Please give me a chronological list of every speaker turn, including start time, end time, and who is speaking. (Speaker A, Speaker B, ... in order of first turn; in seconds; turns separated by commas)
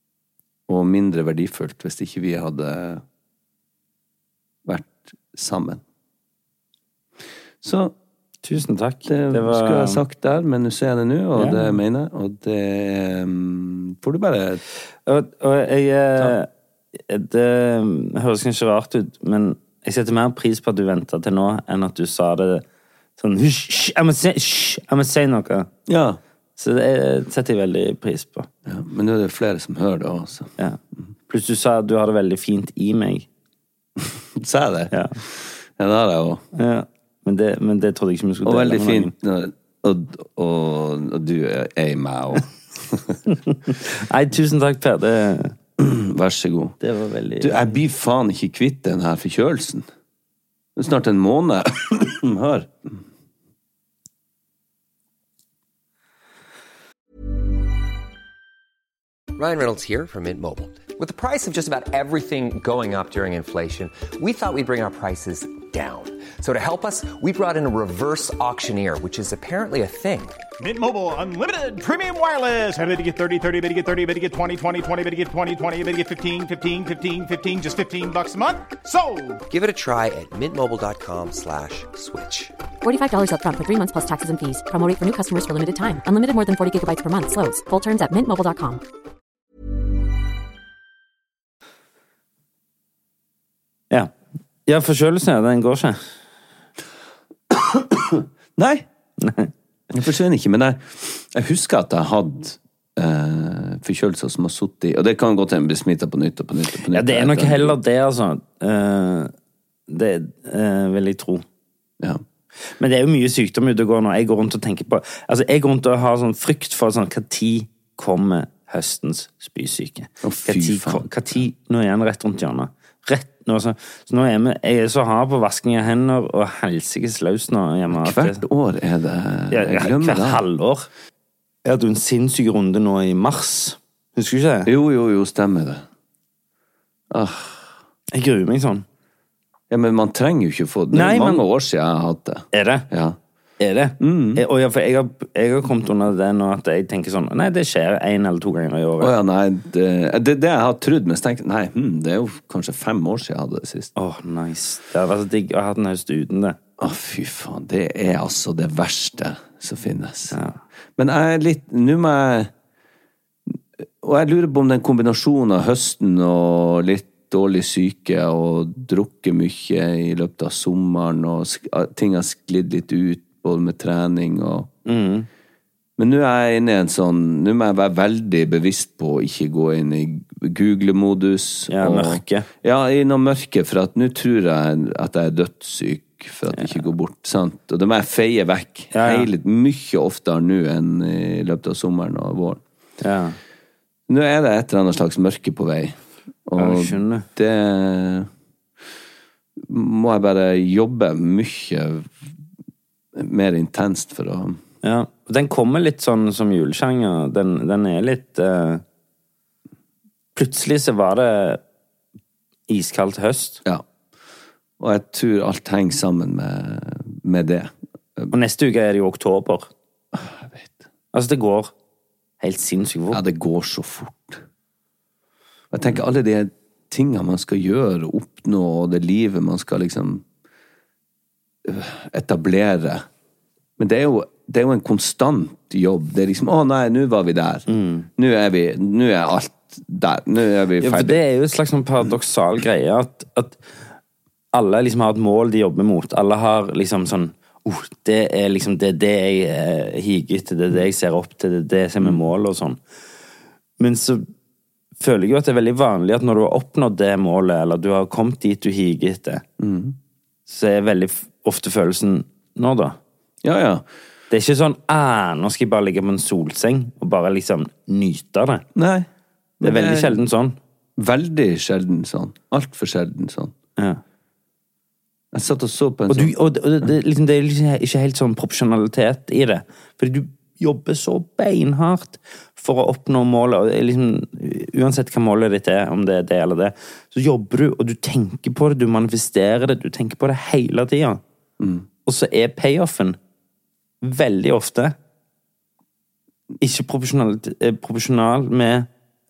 Speaker A: 0.7-3.0, Speaker A: 4.7-5.8, Speaker A: 7.6-7.9, Speaker B: 8.4-10.0, Speaker A: 9.1-14.6, Speaker B: 11.4-11.8, Speaker B: 15.1-16.5, Speaker B: 17.1-22.6, Speaker B: 23.2-25.7, Speaker A: 25.9-26.2, Speaker B: 26.6-28.5, Speaker A: 28.7-30.5, Speaker B: 31.3-33.3, Speaker A: 34.0-36.4, Speaker B: 36.5-39.1, Speaker A: 38.4-43.2, Speaker B: 43.5-45.5, Speaker A: 45.8-46.8, Speaker B: 46.8-47.8, Speaker A: 47.4-49.9, Speaker A: 50.8-53.0, Speaker C: 59.4-70.4, Speaker D: 70.6-79.4, Speaker C: 79.5-82.5, Speaker E: 82.8-88.8, Speaker B: 94.7-96.0, Speaker A: 97.5-98.9, Speaker B: 99.2-99.5, Speaker A: 99.9-107.8, Speaker B: 106.9-109.3, Speaker B: 109.9-111.5, Speaker B: 112.8-128.4, Speaker A: 120.2-121.1, Speaker A: 127.9-130.4, Speaker B: 129.5-130.9, Speaker B: 131.6-134.7, Speaker A: 134.7-135.8, Speaker A: 137.1-137.7, Speaker B: 138.1-138.8, Speaker A: 139.7-143.2, Speaker B: 140.9-141.4, Speaker B: 142.5-142.9, Speaker B: 143.6-149.1, Speaker A: 144.0-144.4, Speaker A: 149.0-153.9, Speaker B: 154.0-156.6, Speaker A: 156.8-160.4, Speaker B: 160.3-160.6, Speaker A: 161.0-162.5, Speaker A: 164.0-174.7, Speaker B: 174.8-175.3, Speaker A: 176.0-192.6, Speaker B: 181.7-182.5, Speaker B: 188.9-189.3, Speaker B: 193.0-193.4, Speaker A: 194.1-198.3, Speaker B: 196.6-197.3, Speaker A: 199.6-202.1, Speaker A: 203.2-204.6, Speaker B: 204.8-208.8, Speaker B: 210.3-211.6, Speaker B: 212.7-213.6, Speaker A: 214.8-218.3, Speaker B: 218.3-219.7, Speaker A: 220.1-220.8, Speaker B: 221.1-221.7, Speaker B: 222.4-223.2, Speaker A: 223.1-224.4, Speaker A: 225.7-230.2, Speaker A: 231.6-233.1, Speaker A: 233.8-241.2, Speaker B: 237.7-238.1, Speaker B: 240.8-243.6, Speaker B: 244.5-252.8, Speaker B: 253.8-254.3, Speaker B: 255.0-259.4, Speaker A: 259.6-260.0, Speaker B: 260.5-263.0, Speaker A: 263.4-263.9, Speaker B: 264.3-268.6, Speaker A: 268.8-269.1, Speaker A: 269.6-270.2, Speaker B: 269.6-270.6, Speaker A: 271.0-273.5, Speaker A: 275.3-276.3, Speaker B: 276.1-291.2, Speaker A: 291.6-291.9, Speaker B: 292.1-293.2, Speaker B: 294.0-294.9, Speaker B: 296.6-298.9